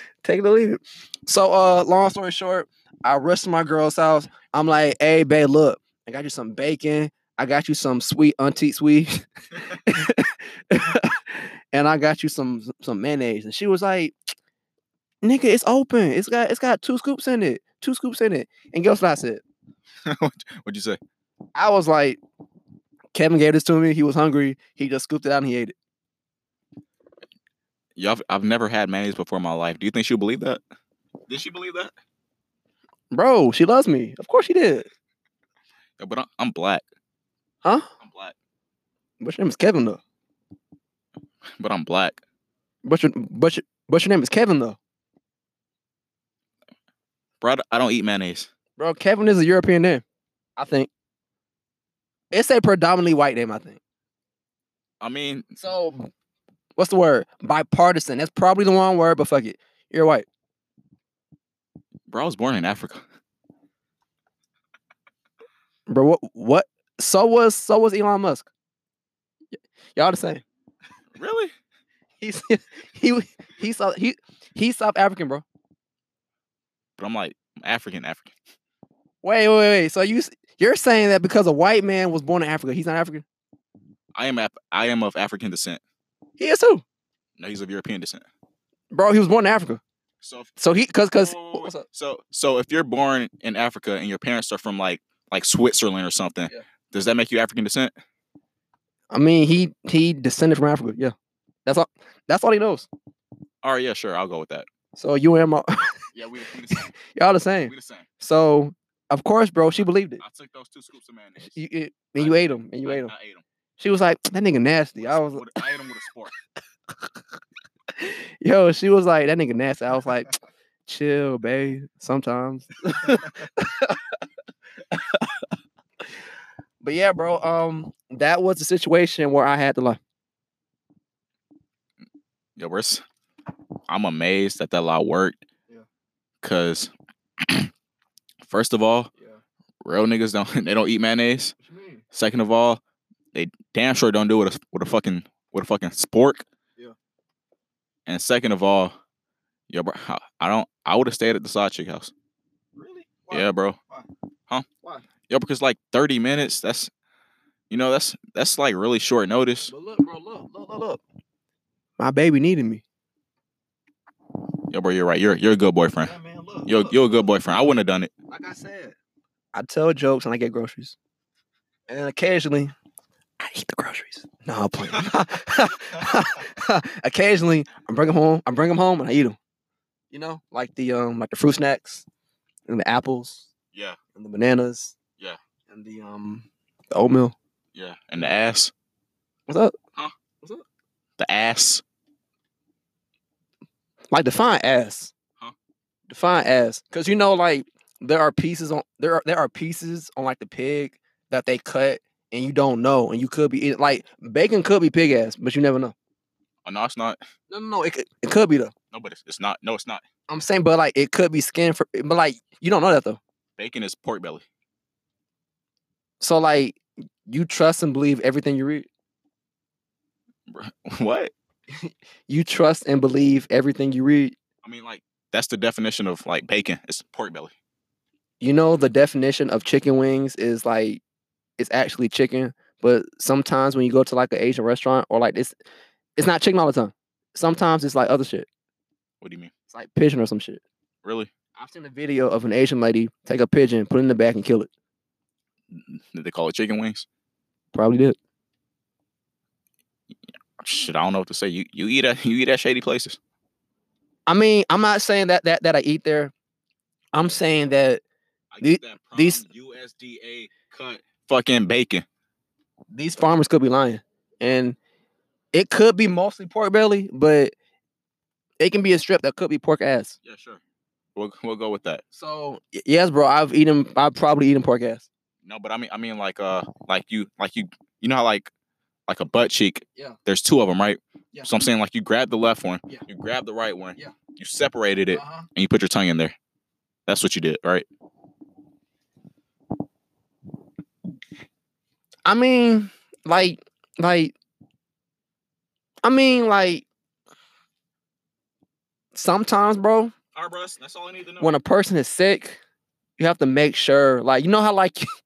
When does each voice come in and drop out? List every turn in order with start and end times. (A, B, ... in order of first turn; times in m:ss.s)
0:00.2-0:14.1 A
0:15.2-0:19.4 A
0:20.0-0:21.0 B
0:21.6-0:22.2 A
0:23.1-0:25.8 A
0:28.0-0:30.6 B
0:31.3-0:31.9 B
0:33.1-0:34.9 A
0:36.0-0:36.8 B
0:38.0-0:38.4 B
0:39.2-0:40.0 A
0:41.6-0:42.2 B
0:42.8-0:44.8 A
0:47.4-0:48.5 B
0:48.8-0:50.0 A
0:50.6-0:50.9 A
0:52.3-0:53.8 A
0:55.0-0:55.5 B
0:55.6-0:56.1 A
0:56.8-1:00.3 A
1:02.1-1:03.0 B
1:05.9-1:08.5 A
1:10.0-1:10.4 A
1:11.2-1:11.5 B
1:12.2-1:15.4 A
1:17.0-1:18.3 B
1:19.2-1:23.2 A
1:24.1-1:25.8 B
1:26.4-1:26.8 A
1:27.4-1:28.2 B
1:28.9-1:29.8 A
1:30.2-1:30.6 B
1:30.6-1:31.8 A
1:31.1-1:37.9 B
1:39.1-1:41.1 A
1:41.7-1:42.9 A
1:43.6-1:44.7 B
1:45.0-1:45.9 A
1:46.1-1:46.9 B
1:47.1-1:50.2 A
1:47.6-1:48.1 B
1:50.2-1:51.6 B
1:51.4-1:53.1 A
1:52.2-1:53.4 B
1:53.8-1:55.5 A
1:55.0-1:56.3 B
1:58.0-2:00.3 A
2:00.9-2:04.0 A
2:04.9-2:05.3 A
2:06.8-2:10.0 A
2:12.6-2:13.0 B
2:13.9-2:15.4 B
2:16.4-2:17.7 B
2:18.4-2:19.1 B
2:19.8-2:21.6 B
2:21.6-2:22.0 A
2:22.1-2:22.8 B
2:23.3-2:26.4 B
2:28.1-2:29.0 B
2:29.7-2:32.1 B
2:32.8-2:34.1 A
2:33.3-2:33.8 B
2:35.3-2:36.9 B
2:37.7-2:39.7 B
2:39.7-2:41.0 A
2:42.0-2:42.8 A
2:44.7-2:46.2 B
2:46.0-2:47.0 A
2:46.7-2:48.1 B
2:48.3-2:49.0 A
2:49.5-2:51.0 A
2:51.9-2:52.7 A
2:53.4-2:59.4 A
3:00.1-3:02.0 A
3:02.7-3:03.5 A
3:04.2-3:05.0 A
3:05.7-3:07.4 A
3:07.8-3:08.7 B
3:09.5-3:09.7 A
3:11.2-3:11.8 B
3:14.1-3:15.1 A
3:16.1-3:25.9 A
3:26.6-3:27.2 B
3:27.5-3:28.7 A
3:28.9-3:30.0 B
3:30.3-3:33.2 A
3:33.6-3:34.4 B
3:36.2-3:38.9 A
3:40.5-3:41.3 B
3:41.8-3:44.4 A
3:44.6-3:47.5 B
3:48.4-3:51.0 A
3:51.6-3:55.6 A
3:56.2-3:58.5 A
3:59.2-3:59.5 B
3:59.7-4:00.6 A
4:01.0-4:01.3 B
4:01.6-4:04.7 A
4:05.7-4:07.1 B
4:07.7-4:08.2 A
4:10.6-4:13.2 B
4:14.3-4:16.3 A
4:17.1-4:18.0 A
4:18.5-4:22.0 B
4:18.6-4:19.5 A
4:22.9-4:24.8 A
4:25.5-4:27.5 A
4:28.6-4:30.2 A
4:30.2-4:30.6 B
4:31.2-4:32.0 B
4:32.1-4:35.1 A
4:35.4-4:38.5 B
4:39.1-4:46.4 B
4:45.1-4:45.5 A
4:47.1-4:47.9 B
4:52.3-4:54.3 A
4:56.0-4:56.8 A
4:59.1-5:00.1 A
5:00.3-5:01.5 B
5:01.4-5:02.6 A
5:03.2-5:05.1 A